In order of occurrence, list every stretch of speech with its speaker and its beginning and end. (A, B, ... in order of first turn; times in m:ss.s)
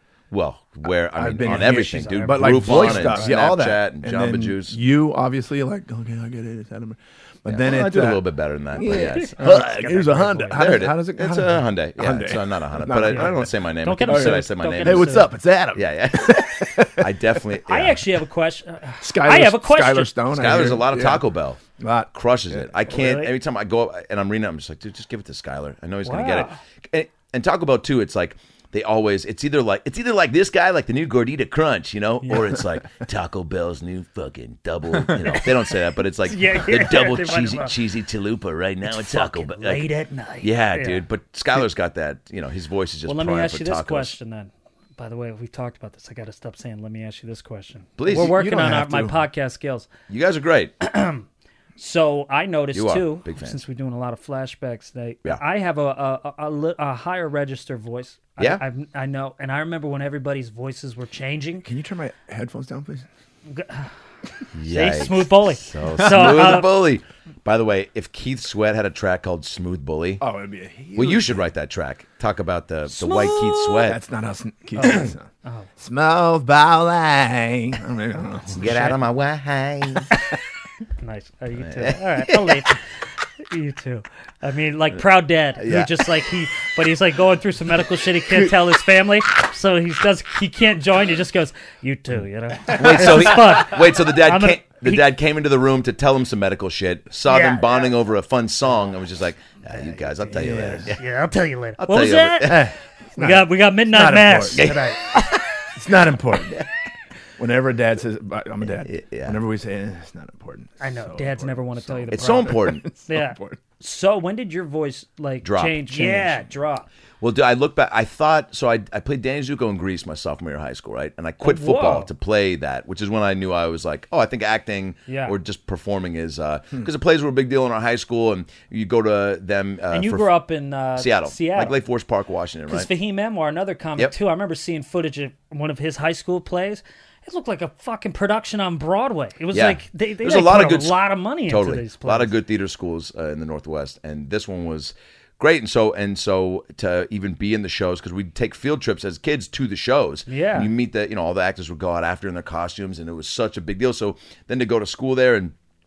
0:00.3-0:04.8 A
0:01.1-0:13.5 B
0:01.4-0:03.3 C
0:07.5-0:09.6 A
0:08.9-0:10.8 C
0:10.5-0:18.0 A
0:13.0-0:15.3 C
0:14.1-0:17.1 B
0:17.6-0:20.1 C
0:19.0-0:21.2 B
0:20.3-0:21.6 A
0:21.8-0:22.7 B
0:22.1-0:39.9 A
0:22.9-0:23.3 C
0:26.0-0:26.6 C
0:36.3-0:37.8 C
0:38.8-0:41.0 C
0:40.4-0:44.2 A
0:43.1-0:49.9 C
0:48.0-0:48.4 A
0:48.1-0:49.2 B
0:50.1-0:50.7 A
0:50.8-0:51.3 C
0:51.8-1:01.7 C
0:52.7-0:53.6 A
0:58.4-0:58.6 A
1:01.6-1:03.1 B
1:03.5-1:03.9 C
1:04.5-1:10.2 A
1:04.6-1:06.7 C
1:10.2-1:11.4 B
1:11.0-1:14.0 A
1:12.9-1:13.9 C
1:13.8-1:15.3 B
1:14.8-1:15.7 C
1:15.8-1:19.0 B
1:18.5-1:20.1 A
1:21.0-1:22.8 C
1:21.6-1:22.7 A
1:23.5-1:35.1 C
1:25.6-1:25.9 A
1:32.7-1:41.0 A
1:37.3-1:37.9 C
1:40.3-1:40.9 B
1:40.4-1:42.6 C
1:41.8-1:42.7 A
1:42.4-1:44.7 B
1:43.2-1:45.4 C
1:44.6-1:45.4 A
1:45.8-1:46.6 B
1:47.4-1:53.6 B
1:48.8-1:49.4 A
1:50.8-1:56.9 C
1:52.1-1:52.9 A
1:55.4-1:56.4 A
1:57.2-2:10.3 A
2:01.4-2:02.1 C
2:05.1-2:05.4 C
2:09.9-2:11.8 C
2:11.0-2:12.9 A
2:12.7-2:22.3 C
2:19.5-2:35.6 A
2:30.3-2:30.7 C